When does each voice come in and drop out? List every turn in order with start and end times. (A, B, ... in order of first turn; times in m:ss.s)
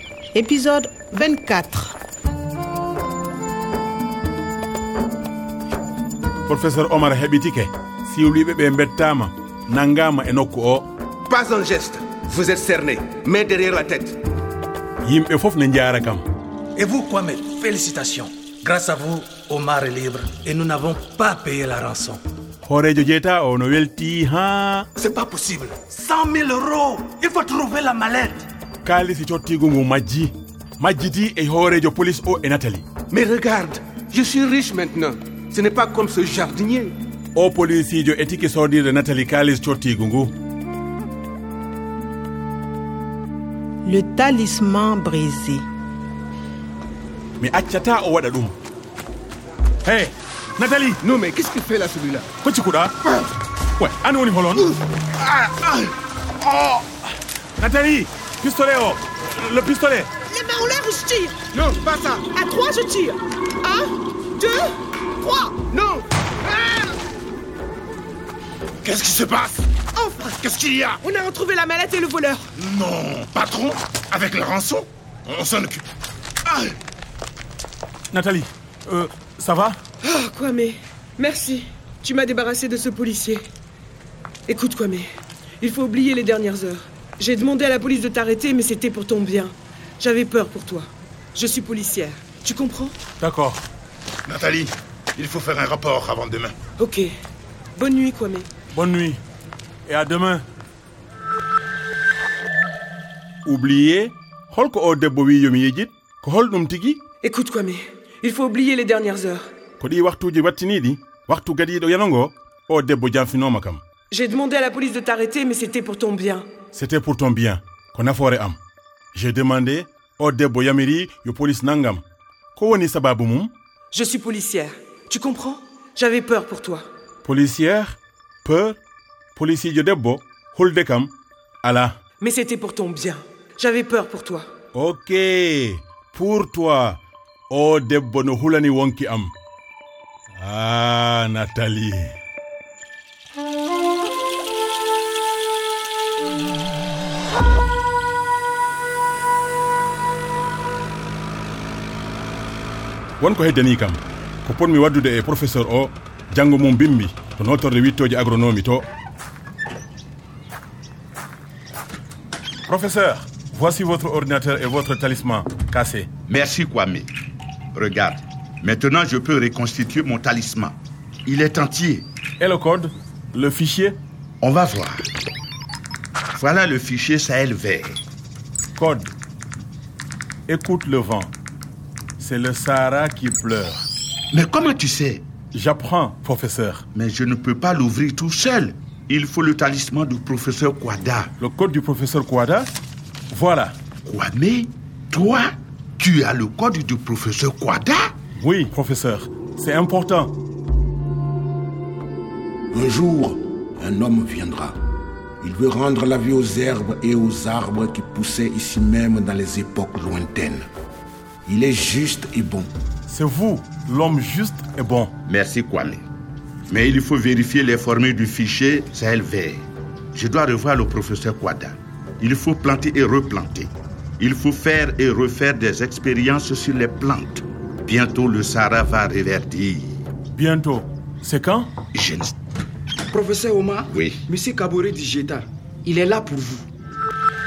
0:00.3-0:01.9 A
0:06.5-0:10.9 B
0:15.0-0:16.3 B
0:16.8-0:22.2 C
0:22.6-0:24.9 B
0:25.0-0:28.5 C
0:28.8-0:32.8 B
0:33.2-0:34.6 D
0:35.5-0:36.9 D
0:37.4-0:40.3 B
0:43.8-0:45.7 A
0:47.4-0:48.6 B
0:49.8-0:51.0 B
0:52.4-0:52.9 B
0:53.8-0:54.7 B
0:57.6-1:00.1 B
1:00.3-1:01.5 E
1:02.2-1:03.8 E
1:04.4-1:04.7 E
1:05.2-1:05.6 E
1:08.8-1:09.7 F
1:10.5-1:11.0 F
1:11.1-1:12.4 E
1:12.6-1:15.8 F
1:18.1-1:19.8 B
1:20.1-1:23.4 E
1:24.5-1:25.0 E
1:25.6-1:29.5 E
1:30.0-1:30.8 E
1:31.4-1:32.9 E
1:33.2-1:33.6 B
1:34.3-1:36.5 F
1:37.8-1:38.4 E
1:38.7-1:39.2 B
1:39.9-1:40.4 B
1:43.4-1:47.0 B
1:47.2-1:49.4 E
1:49.8-1:53.8 B
1:54.1-1:56.4 E
1:56.7-1:58.6 B
1:59.1-2:02.0 B
2:02.6-2:03.5 B
2:04.0-2:06.8 E
2:07.2-2:08.8 B
2:09.4-2:12.0 B
2:12.2-2:14.4 E
2:14.8-2:19.3 B
2:20.3-2:22.2 B
2:33.2-2:38.8 B
2:42.7-2:46.1 B
2:46.3-2:47.1 F
2:47.8-2:52.1 F
2:52.4-2:54.0 B
2:54.4-2:55.1 F
2:56.4-2:58.0 F
2:58.8-2:59.1 B
3:00.5-3:01.3 B
3:02.2-3:03.8 B
3:04.3-3:05.2 F
3:05.5-3:06.8 B
3:06.9-3:11.3 F
3:11.4-3:12.7 B
3:13.3-3:13.8 B
3:14.0-3:18.1 F
3:18.4-3:20.4 B
3:22.7-3:24.8 G
3:25.4-3:30.6 G
3:31.5-3:32.7 G
3:33.1-3:35.1 B
3:35.3-3:36.0 F
3:36.7-3:49.9 F
3:50.4-3:51.7 B
3:52.0-3:52.3 F
3:53.1-3:56.7 H
3:53.9-3:54.2 F